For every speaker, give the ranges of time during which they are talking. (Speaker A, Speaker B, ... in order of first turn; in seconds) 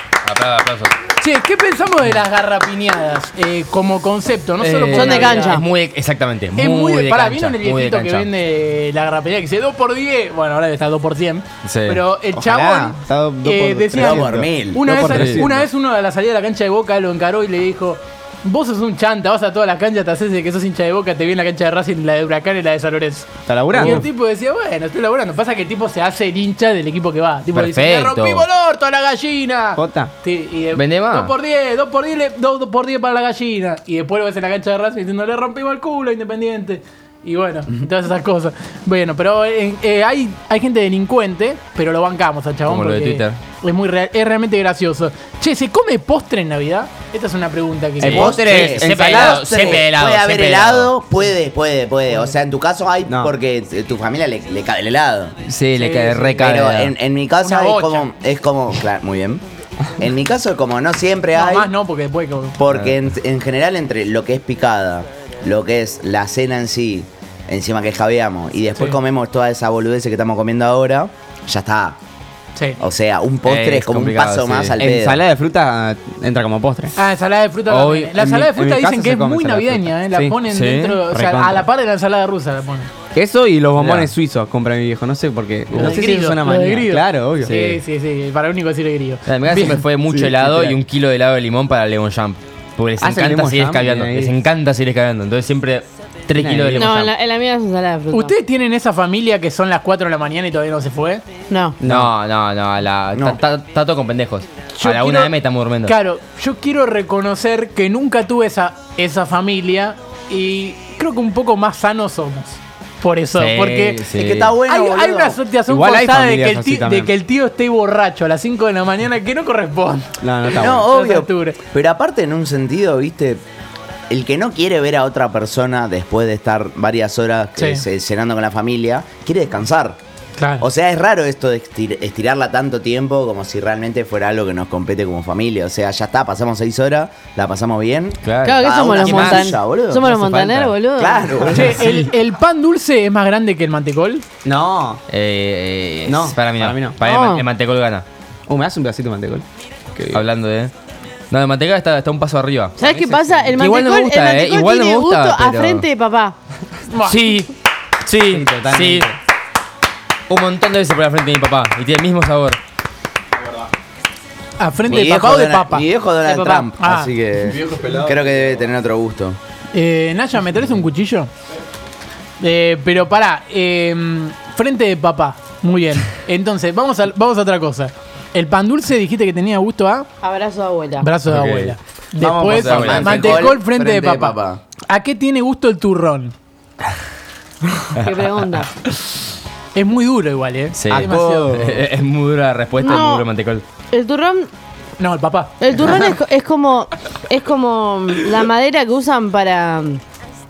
Speaker A: 0.2-1.0, 4.6-8.3, 11.6-12.0, 15.1-15.4, 27.5-28.5, 30.7-31.3, 42.7-43.4, 48.0-50.9, 55.5-57.0, 62.7-63.0, 73.4-74.8, 77.7-78.2, 80.5-81.0, 83.8-84.1, 85.7-86.0, 87.4-87.8, 89.3-97.1, 101.8-106.0, 113.3-114.6, 138.2-140.7, 141.8-142.0, 145.1-148.1, 150.1-150.7, 151.3-152.8, 153.6-155.9, 157.1-159.1, 160.3-162.6, 181.3-181.8, 182.4-183.5, 190.8-193.6
Speaker B: 1.2-5.6, 6.6-48.4, 55.8-56.4, 57.4-58.1, 61.4-62.6, 77.0-82.9, 85.7-89.8, 98.1-101.2, 104.7-105.3, 105.8-114.0, 114.7-120.1, 120.6-121.6, 127.6-127.8, 130.4-130.7, 141.5-144.2, 156.9-157.2, 164.6-167.1, 169.7-171.3, 172.4-180.1, 181.0-184.4, 184.9-186.3, 189.7-191.6, 195.0-195.7
Speaker C: 4.9-5.7, 96.7-98.3, 101.5-101.8, 138.4-141.7, 147.0-147.4, 152.8-156.3, 180.2-181.1, 187.9-188.7, 192.8-193.3, 193.9-194.5, 195.6-200.0
Speaker D: 12.3-15.7, 23.5-24.1, 29.8-30.1, 48.0-49.6, 74.8-77.0, 78.2-80.4, 81.1-81.7, 83.1-87.5, 90.1-90.8, 93.0-94.3, 96.4-96.9, 101.8-102.1, 115.7-117.1, 120.2-120.9, 144.4-145.0, 146.1-147.0, 148.5-150.2, 152.8-153.6, 158.3-159.2, 167.5-168.6, 182.2-182.6, 190.9-191.9
Speaker E: 14.0-14.8, 48.1-55.4, 56.3-59.4, 60.0-61.7, 62.6-72.0, 72.8-75.2, 103.1-103.4, 114.1-115.4, 120.6-123.4, 124.1-130.0, 130.6-140.1, 141.0-141.6, 164.9-169.4, 182.2-184.6